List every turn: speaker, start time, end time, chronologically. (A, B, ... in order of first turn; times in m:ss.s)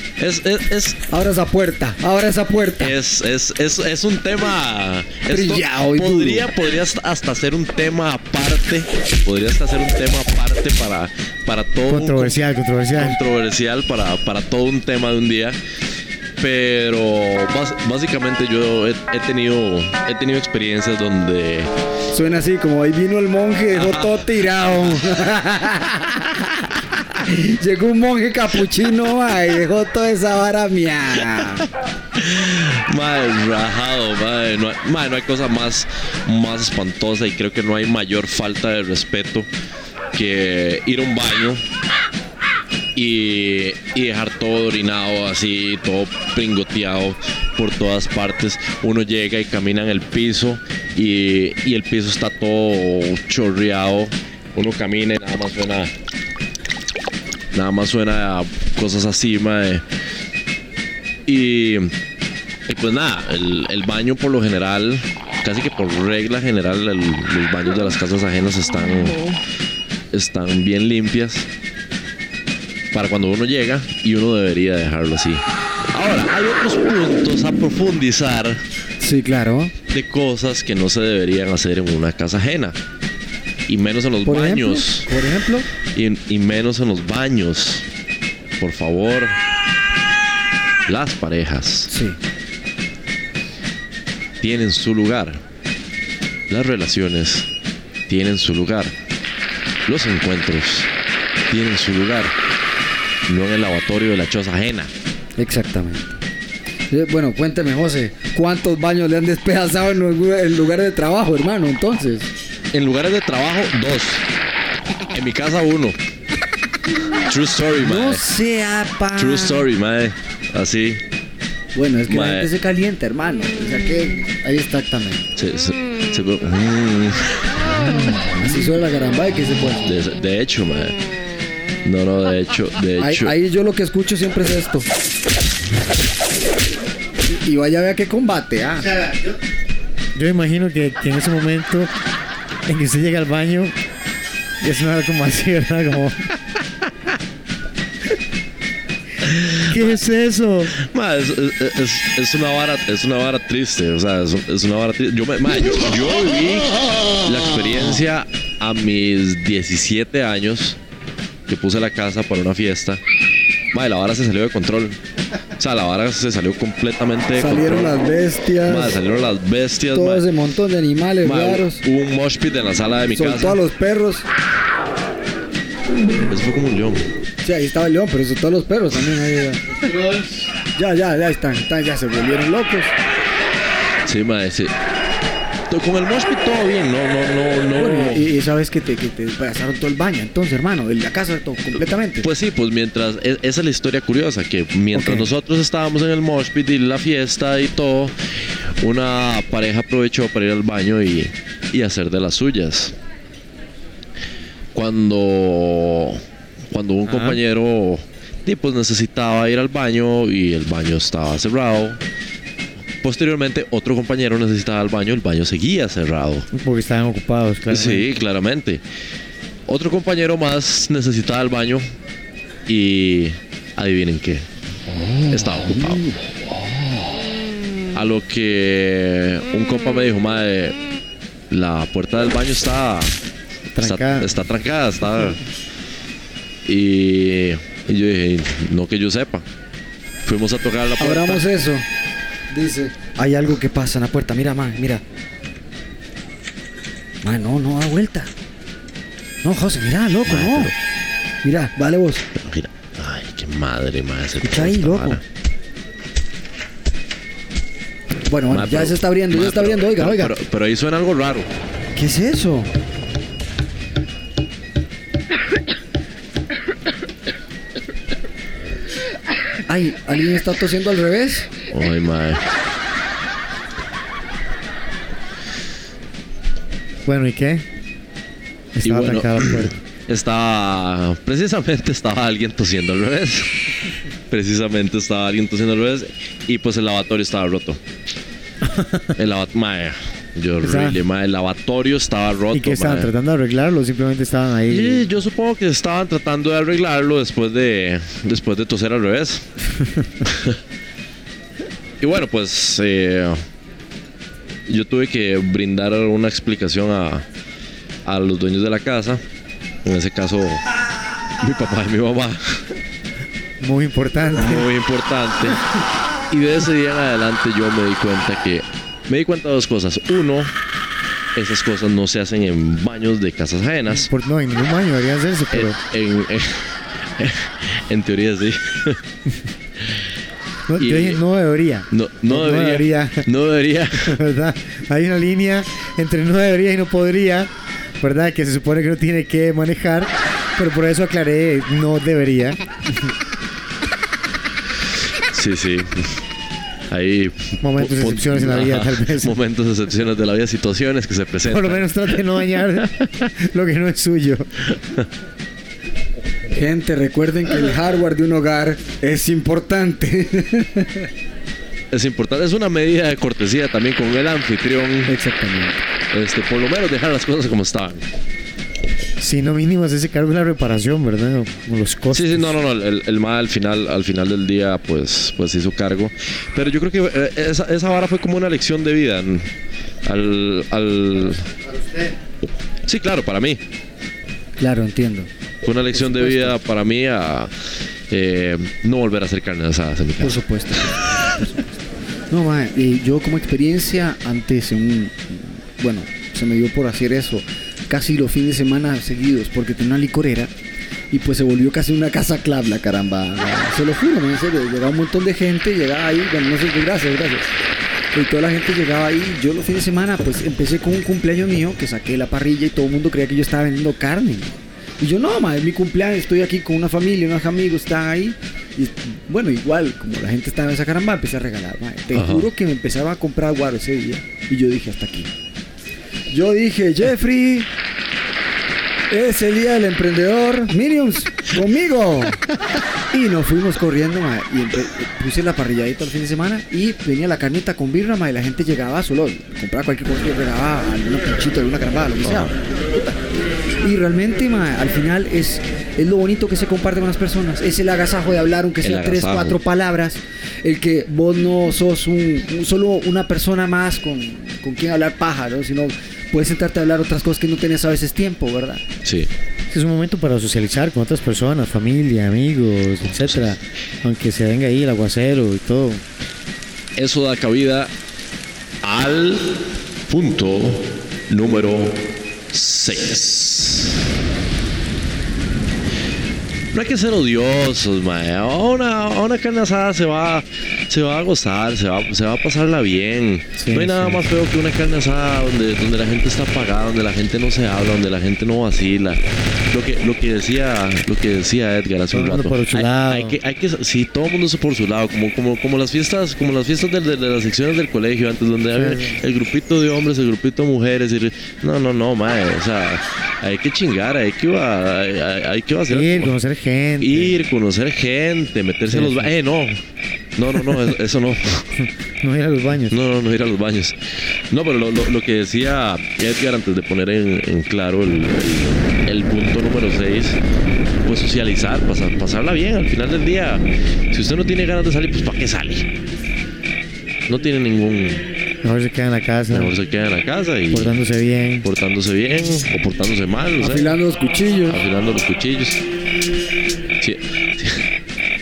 0:00.2-0:01.0 A
0:01.1-0:03.0 B
0:02.8-0:12.3 A
0:05.3-0:06.5 B
0:11.9-0:13.2 C
0:13.0-0:15.6 A
0:16.4-0:21.7 A
0:22.1-0:26.6 B
0:23.7-0:24.2 A
0:27.1-0:31.7 B
0:32.2-0:39.5 A
0:40.1-0:41.6 A
0:43.0-0:55.9 A
0:57.5-0:59.8 A
1:01.3-1:01.9 A
1:02.7-1:09.3 A
1:10.1-1:11.5 A
1:12.9-1:18.6 A
1:19.0-1:19.7 B
1:19.9-1:22.8 A
1:23.7-1:25.1 A
1:24.2-1:25.7 B
1:26.0-1:27.8 A
1:28.6-1:29.4 A
1:30.9-1:31.9 A
1:31.9-1:32.2 B
1:34.4-1:35.4 A
1:36.5-1:37.5 A
1:38.1-1:38.9 A
1:39.9-1:40.9 A
1:41.5-1:42.3 A
1:43.3-1:44.9 A
1:45.4-1:46.2 B
1:46.9-1:52.3 B
1:52.7-1:54.2 A
1:55.1-1:56.0 A
1:57.2-1:58.2 A
1:57.8-1:59.7 B
1:59.2-2:01.0 A
2:01.8-2:05.2 B
2:02.1-2:02.5 A
2:05.4-2:07.4 A
2:07.7-2:09.8 B
2:09.8-2:11.0 A
2:11.8-2:13.3 A
2:13.0-2:14.9 B
2:17.3-2:18.9 B
2:18.8-2:19.4 C
2:20.2-2:21.9 C
2:22.7-2:23.8 C
2:24.6-2:26.2 C
2:29.2-2:30.0 A
2:29.7-2:30.7 C
2:30.7-2:40.8 A
2:41.5-2:43.0 A
2:43.7-2:45.0 A
2:45.6-2:48.0 A
2:47.4-2:49.0 B
2:48.6-2:50.2 A
2:49.9-2:51.8 B
2:51.2-2:53.6 A
2:53.2-2:54.3 B
2:56.3-2:57.0 A
2:57.4-2:59.8 B
3:00.0-3:00.3 C
3:00.8-3:02.9 B
3:04.0-3:04.7 A
3:05.7-3:08.3 A
3:07.8-3:12.3 B
3:12.2-3:18.2 A
3:18.8-3:23.0 A
3:24.7-3:32.0 A
3:27.1-3:27.4 C
3:33.0-3:36.5 A
3:36.5-3:38.0 C
3:37.7-3:38.8 A
3:39.7-3:41.9 A
3:42.7-3:44.5 A
3:44.9-3:47.0 B
3:45.3-3:46.1 A
3:48.0-3:50.8 A
3:51.5-3:53.1 A
3:53.8-3:54.3 C
3:53.8-3:55.4 A
3:56.7-3:59.4 A
4:00.3-4:01.4 A
4:01.0-4:01.9 B
4:02.5-4:05.0 B
4:07.2-4:08.3 B
4:09.4-4:10.7 B
4:10.3-4:10.7 A
4:11.4-4:12.3 B
4:12.4-4:15.2 A
4:14.4-4:15.2 B
4:18.3-4:20.3 B
4:18.5-4:21.5 A
4:22.0-4:22.7 B
4:29.7-4:31.5 B
4:31.7-4:32.4 A
4:37.1-4:37.7 C
4:38.8-4:39.7 C
4:38.8-4:43.6 A
4:44.3-4:47.8 A
4:48.6-4:49.1 C
4:49.2-4:53.1 A
4:50.6-4:51.0 C
4:52.5-4:55.0 C
4:54.7-4:59.5 A
5:00.2-5:00.6 A
5:02.0-5:03.4 A
5:04.7-5:07.2 A
5:08.1-5:09.2 A
5:09.8-5:10.6 A
5:11.4-5:12.6 A
5:13.6-5:14.7 C
5:14.3-5:15.6 A
5:16.3-5:20.5 A
5:21.4-5:24.1 A
5:23.9-5:25.8 C
5:25.5-5:29.0 A
5:30.7-5:33.3 C
5:30.8-5:31.2 A
5:31.9-5:34.2 A
5:34.0-5:42.6 C
5:45.3-5:46.2 A
5:46.9-5:52.2 A
5:47.6-5:49.4 C
5:51.5-5:54.5 C
5:56.5-6:01.1 B
6:01.9-6:05.1 A
6:05.1-6:05.8 B
6:06.1-6:08.0 A
6:09.2-6:12.5 C
6:12.1-6:19.5 A
6:20.0-6:21.5 A
6:21.7-6:22.1 C
6:22.9-6:23.6 A
6:24.6-6:25.3 B
6:25.6-6:27.5 A
6:25.9-6:26.6 B
6:28.1-6:30.4 A
6:30.2-6:31.0 B
6:32.3-6:40.5 B
6:41.1-6:47.5 B
6:48.1-7:05.3 B
7:02.1-7:02.5 A
7:06.3-7:07.7 B
7:09.1-7:12.5 B
7:13.1-7:23.2 B
7:22.2-7:22.5 A
7:23.8-7:38.8 B
7:28.8-7:29.6 A
7:39.0-7:39.3 A
7:39.7-7:46.0 C
7:47.0-7:47.9 A
7:48.8-7:49.5 A
7:50.1-7:52.0 A
7:52.5-7:53.9 A
7:56.7-8:26.3 A
8:03.6-8:04.2 C
8:12.1-8:13.4 C
8:18.7-8:19.2 C
8:25.9-8:27.3 C
8:27.0-8:29.8 A
8:28.9-8:29.3 C
8:30.4-8:31.7 A
8:32.2-8:33.0 C
8:32.9-8:40.4 A
8:41.0-8:45.9 A
8:47.3-8:48.2 A
8:48.6-8:49.7 C
8:49.5-8:51.0 A
8:50.7-8:51.7 C
8:51.6-8:53.9 A
8:53.6-8:54.8 B
8:54.7-8:55.8 A
8:57.0-8:57.9 A